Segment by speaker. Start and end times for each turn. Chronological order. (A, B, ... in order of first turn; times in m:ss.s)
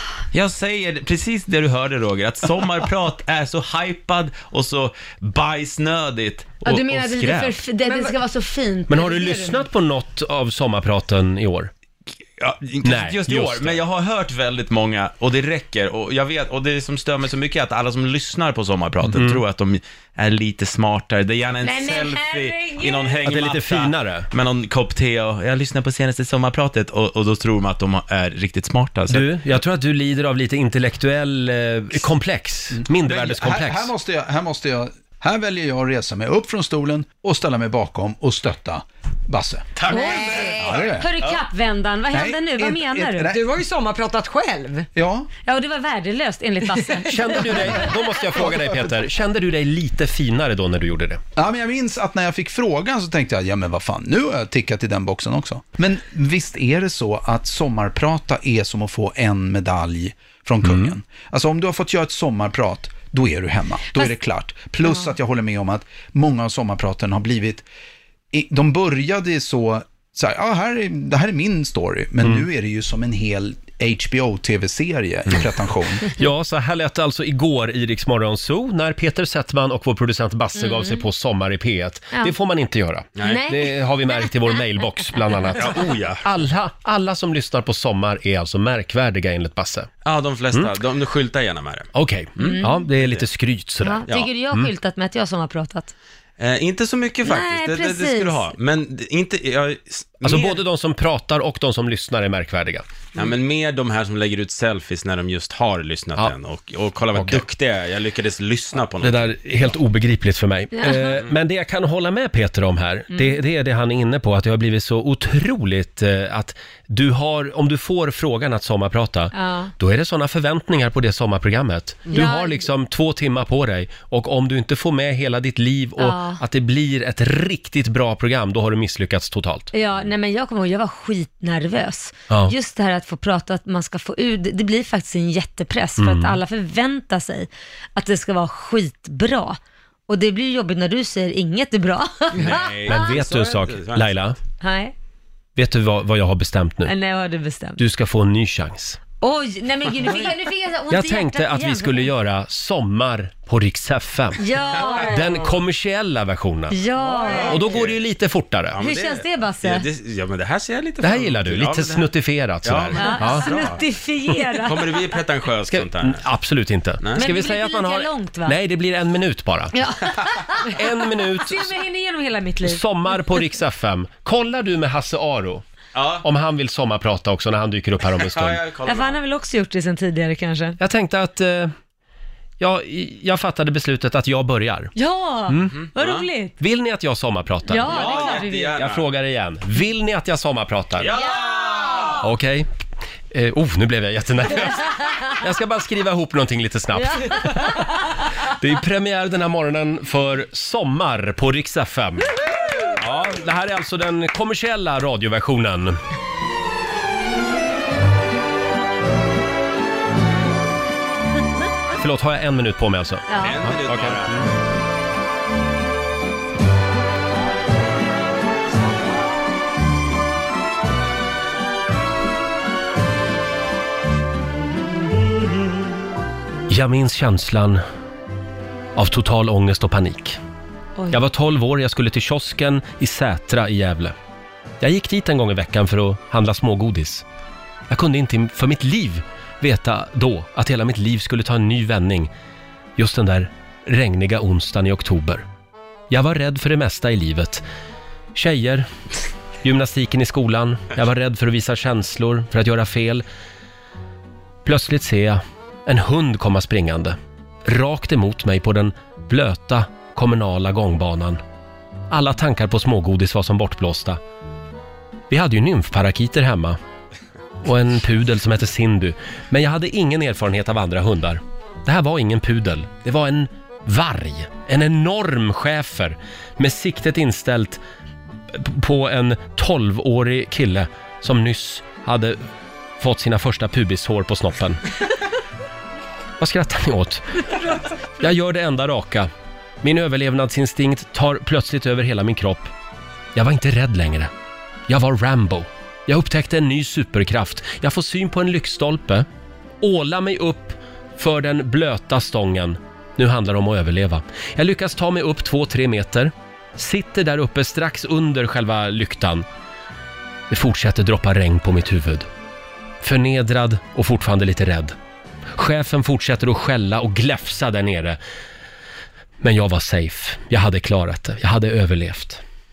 0:00.3-0:07.0 A
0:06.6-0:09.6 B
0:06.9-0:07.6 C
0:07.8-0:08.1 D
0:08.9-0:11.7 C
0:12.4-0:29.3 A
0:12.8-0:13.8 C
0:19.1-0:19.4 C
0:21.6-0:23.2 B
0:23.2-0:24.3 C
0:29.1-0:33.9 C
0:32.8-0:40.0 E
0:39.8-0:41.4 A
0:39.9-0:43.3 B
0:40.6-0:41.1 E
0:42.1-0:43.4 E
0:43.3-0:44.9 D
0:44.9-0:45.3 E
0:45.4-0:47.9 B
0:47.0-0:51.2 C
0:51.4-1:07.6 E
1:00.6-1:00.9 C
1:08.3-1:16.1 E
1:16.2-1:29.9 C
1:20.6-1:21.0 B
1:23.2-1:23.4 A
1:23.2-1:24.2 B
1:25.6-1:26.2 A
1:30.0-1:33.2 A
1:31.9-1:34.7 C
1:32.4-1:32.8 B
1:33.8-1:35.9 B
1:36.4-1:40.6 A
1:37.2-1:38.5 B
1:40.2-1:42.8 C
1:43.1-1:49.7 A
1:47.1-1:47.4 C
1:49.0-2:09.7 C
1:50.8-1:51.2 B
1:53.1-1:53.4 B
1:59.3-1:59.7 B
2:02.1-2:02.6 B
2:06.0-2:06.4 B
2:09.7-2:19.6 B
2:16.0-2:16.4 C
2:20.1-2:23.1 B
2:22.3-2:24.3 A
2:22.9-2:24.4 C
2:24.6-2:24.9 B
2:25.6-2:26.9 C
2:26.8-2:27.8 B
2:27.8-2:29.0 C
2:29.2-2:32.1 B
2:30.9-2:34.4 C
2:34.4-2:35.5 B
2:34.8-2:35.1 A
2:34.9-2:36.8 C
2:36.7-2:37.7 B
2:37.0-2:38.0 A
2:37.4-2:38.8 C
2:38.7-2:42.1 A
2:38.8-2:39.8 B
2:41.0-2:43.5 C
2:42.6-2:43.8 A
2:43.0-2:45.0 B
2:44.6-2:46.2 A
2:45.7-2:49.8 C
2:47.0-2:47.4 A
2:47.2-2:48.6 B
2:49.7-2:52.8 B
2:50.7-2:51.7 C
2:52.6-2:55.6 C
2:55.9-2:56.2 A
2:56.2-2:58.6 C
2:58.2-2:59.2 A
2:58.8-3:00.8 B
3:00.8-3:01.7 C
3:02.6-3:04.9 C
3:04.9-3:06.5 B
3:05.5-3:05.8 C
3:05.7-3:06.2 A
3:06.6-3:11.2 C
3:07.7-3:08.8 B
3:07.8-3:09.0 A
3:11.0-3:12.2 A
3:11.1-3:12.2 B
3:12.2-3:12.7 C
3:13.3-3:17.9 C
3:16.9-3:18.1 B
3:18.5-3:22.3 C
3:23.0-3:26.0 C
3:32.0-3:34.5 C
3:33.3-3:33.6 B
3:33.4-3:34.4 A
3:46.7-3:47.8 C
3:49.0-3:50.4 C
3:51.1-3:54.1 C
3:54.8-3:57.2 C
3:57.9-4:02.3 C
4:03.0-4:05.4 C
4:06.1-4:07.6 C
4:08.3-4:08.9 C
4:09.6-4:13.2 C
4:14.6-4:21.4 C
4:22.1-4:24.2 C
4:25.3-4:26.8 C
4:27.6-4:37.8 C
4:38.5-4:42.4 C
4:43.0-4:44.8 C
4:46.4-4:47.4 C
4:48.2-4:49.3 C
4:49.8-4:52.7 C
4:53.3-4:54.3 C
4:54.9-4:59.2 C
4:59.8-5:09.4 C
5:10.5-5:12.3 C
5:13.0-5:14.9 C
5:15.6-5:18.2 C
5:19.4-5:22.4 C